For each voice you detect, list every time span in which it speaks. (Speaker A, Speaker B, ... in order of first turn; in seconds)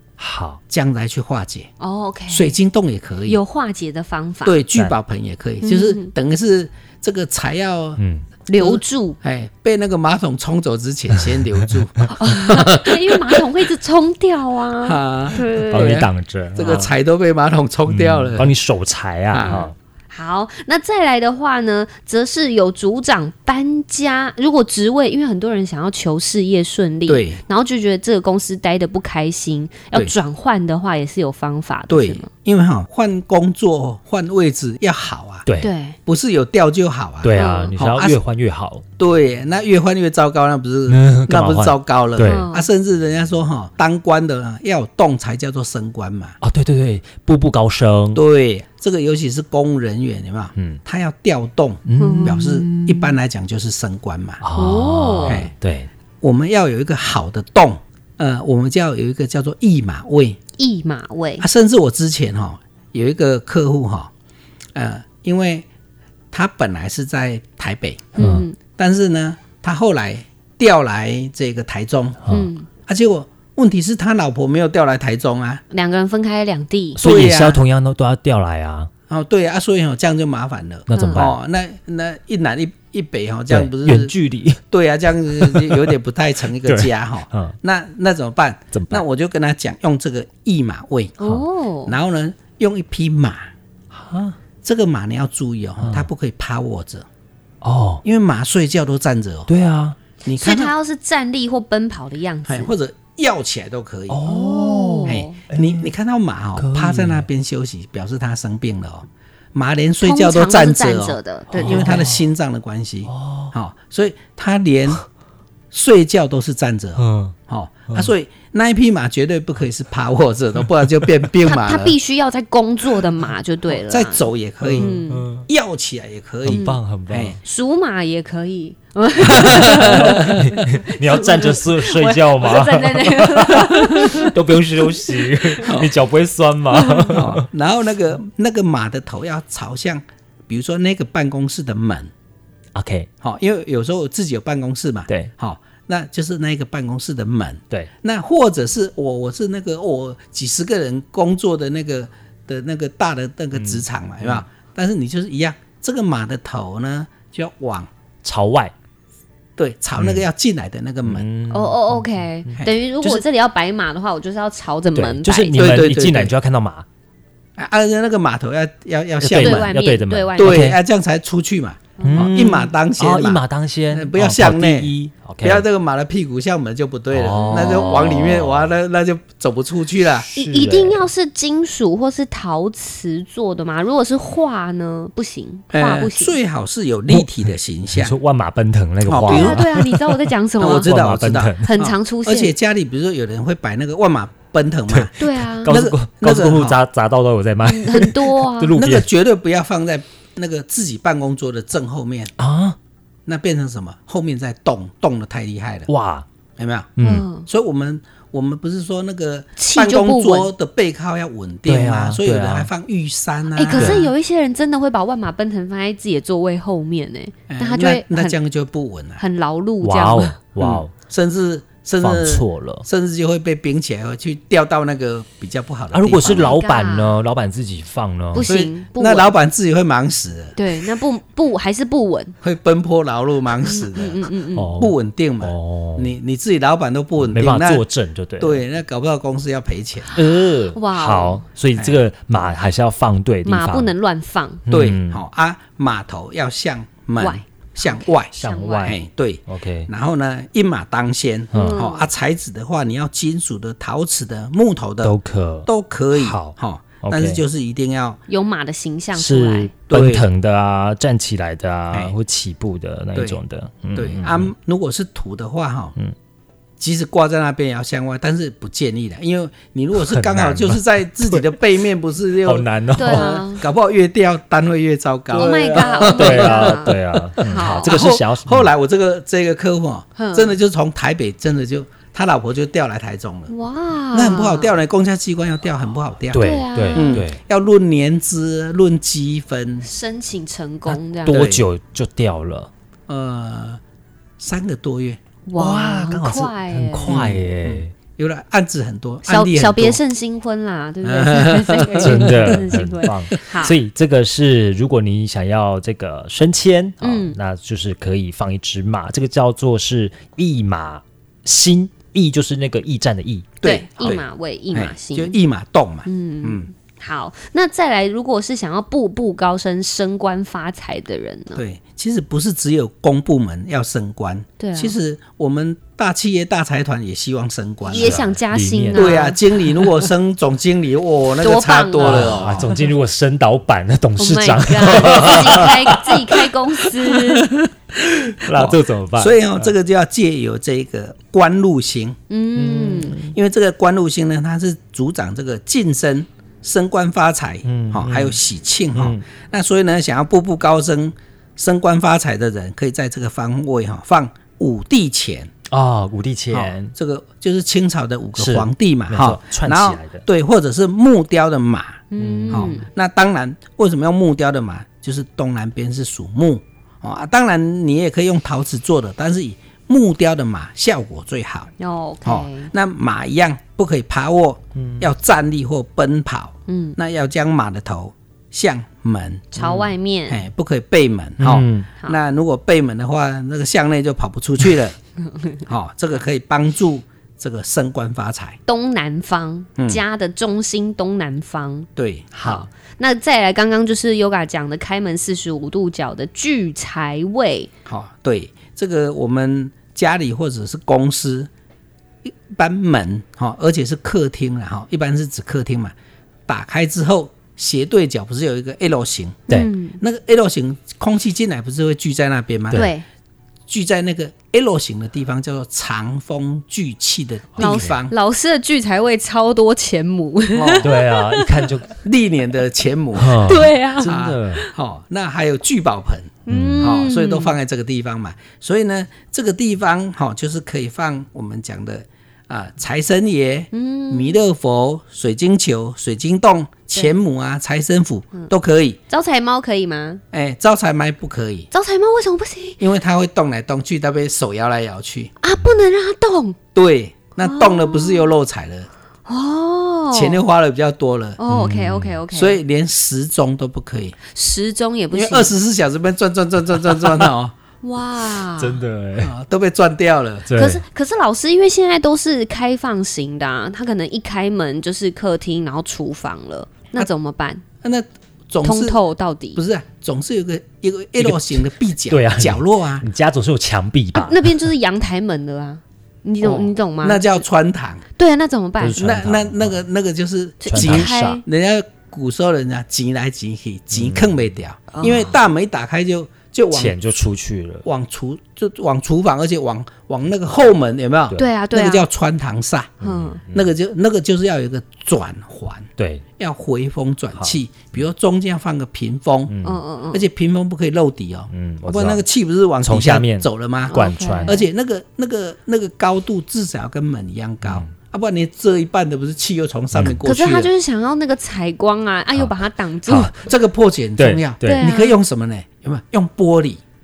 Speaker A: 0.2-0.6, 8.0-8.2, 15.6-16.9, 17.9-19.8, 35.5-35.7, 37.2-38.9, 40.9-42.5, 46.4-48.2, 51.9-53.1, 54.4-55.9, 68.2-68.5, 72.2-72.5, 77.0-78.9, 80.9-81.4, 83.5-84.6, 85.4-85.9, 86.6-87.5, 88.7-89.0, 93.9-94.4, 95.8-96.1, 97.6-98.0, 99.5-100.0, 104.1-105.9, 106.6-107.3, 111.5-112.3, 113.1-113.5, 117.0-117.3, 124.6-125.5, 126.5-127.4, 129.2-137.5, 142.8-143.1, 153.6-154.4, 158.2-158.7, 160.0-160.2, 161.1-163.2, 164.9-166.9, 169.2-170.8, 172.0-175.7, 177.1-178.7, 180.3-181.1, 187.1-187.4, 187.9-191.7, 194.9-199.1, 202.4-202.8, 205.9-206.3, 207.0-207.3, 211.7-212.7, 213.7-214.1, 219.8-220.9, 222.0-222.9, 225.9-228.5, 234.5-236.1, 237.2-238.6, 240.1-243.9, 244.7-245.2, 248.4-249.9, 251.5-251.8, 255.0-257.4, 259.1-264.5, 270.0-271.6, 272.4-273.5, 275.3-278.7, 286.3-287.4, 291.2-292.7, 295.6-297.9, 302.0-313.5, 327.9-329.2, 332.0-336.5, 338.0-339.7, 342.6-343.3, 347.6-348.4, 348.9-349.2, 355.7-356.9, 358.4-360.2, 362.2-362.8, 374.8-375.1, 379.6-379.9, 381.4-381.9, 417.6-417.9, 420.8-421.9, 423.2-424.7, 426.5-427.0, 451.5-452.2, 458.6-459.3, 460.5-460.8, 471.2-474.7, 478.8-479.8, 480.7-481.4, 483.9-484.4, 486.7-487.9, 493.0-493.7, 496.0-496.2, 499.5-499.8, 501.5-502.2, 502.8-504.6, 507.6-507.9, 509.9-510.2, 514.2-514.9
Speaker B: 0.7-1.7, 2.3-3.4, 4.4-8.0, 8.6-13.4, 14.8-18.5, 19.3-19.7, 27.1-27.4, 31.9-35.5, 36.0-38.2, 39.0-46.4, 48.1-54.4, 55.2-55.5, 56.2-60.4, 61.4-64.1, 64.8-65.7, 66.3-68.2, 68.8-72.2, 72.9-75.6, 77.0-77.6, 79.1-84.2, 84.7-91.2, 91.9-93.5, 94.6-97.1, 98.0-99.5, 100.2-100.7, 102.5-104.5, 105.1-115.0, 115.7-122.0, 123.9-127.4, 129.2-130.5, 135.6-136.0, 137.0-142.1, 143.2-157.9, 159.6-161.3, 165.6-166.3, 167.6-169.8, 170.4-180.3, 185.7-188.2, 189.0-189.7, 190.6-195.1, 195.7-196.8, 198.8-202.3, 203.3-205.9, 206.6-214.0, 217.5-219.2, 220.6-226.6, 228.4-230.6, 232.4-237.8, 238.4-240.2, 241.8-242.0, 244.7-258.2, 259.9-260.3, 263.1-263.4, 263.9-265.9, 266.8-283.5, 284.1-289.9, 291.3-291.7, 293.1-293.8, 294.4-295.2, 297.1-300.0, 301.0-302.8, 313.6-316.7, 321.6-328.2, 328.9-332.7, 335.1-335.6, 338.4-342.2, 343.3-355.5, 356.5-371.7, 372.2-379.6, 380.3-385.0, 385.7-388.6, 389.8-390.0, 392.0-392.5, 397.9-401.5, 402.2-405.9, 406.5-409.5, 410.0-412.9, 413.7-418.1, 420.5-420.9, 421.9-439.0, 440.3-441.7, 442.8-445.3, 446.7-448.9, 450.1-451.4, 452.3-454.2, 455.1-457.5, 459.2-460.5, 467.8-469.0, 469.6-473.1, 476.4-478.0, 479.0-487.0, 487.9-499.5, 500.1-510.7, 513.3-516.8
Speaker C: 1.8-2.5, 3.3-4.6, 5.6-6.1, 8.5-9.2, 12.1-16.0, 19.4-32.3, 35.6-36.0, 37.4-37.8, 42.2-42.7, 52.0-52.4, 54.5-55.4, 60.6-61.5, 68.2-68.6, 72.3-72.7, 75.7-77.0, 80.9-81.3, 91.2-92.0, 100.3-102.7, 104.3-105.4, 110.0-112.0, 121.4-124.3, 124.8-125.3, 126.5-126.8, 127.4-135.7, 136.7-137.1, 161.5-165.7, 169.4-170.7, 172.0-172.5, 177.4-178.1, 180.3-186.4, 189.3-190.9, 191.6-192.5, 195.2-195.7, 197.7-198.8, 207.0-207.5, 209.6-210.5, 213.6-218.4, 219.2-220.4, 226.3-227.2, 228.3-229.3, 230.6-232.3, 233.6-234.7, 240.2-241.4, 243.5-244.6, 247.2-249.0, 251.5-252.1, 258.3-259.7, 273.0-273.6, 275.3-278.0, 280.2-280.6, 283.5-284.7, 286.4-287.2, 289.8-291.4, 295.5-297.2, 299.2-303.8, 307.0-307.4, 313.6-315.4, 316.1-321.6, 324.6-324.9, 327.9-329.4, 331.4-332.7, 334.2-337.5, 342.3-343.2, 362.1-362.9, 371.8-372.7, 376.7-377.0, 379.5-380.4, 388.7-397.7, 409.5-410.0, 412.7-413.1, 417.6-421.7, 423.4-424.7, 426.5-427.6, 433.7-434.4, 439.1-440.2, 441.7-442.8, 445.4-446.6, 447.4-448.3, 449.3-450.4, 451.4-452.6, 454.3-455.5, 457.8-458.8, 460.5-467.6, 468.6-469.6, 474.1-477.4, 478.2-479.0, 480.6-481.4, 484.9-485.4, 491.4-492.1, 493.0-493.4, 499.6-500.3, 503.9-504.6, 510.2-513.3, 514.6-515.2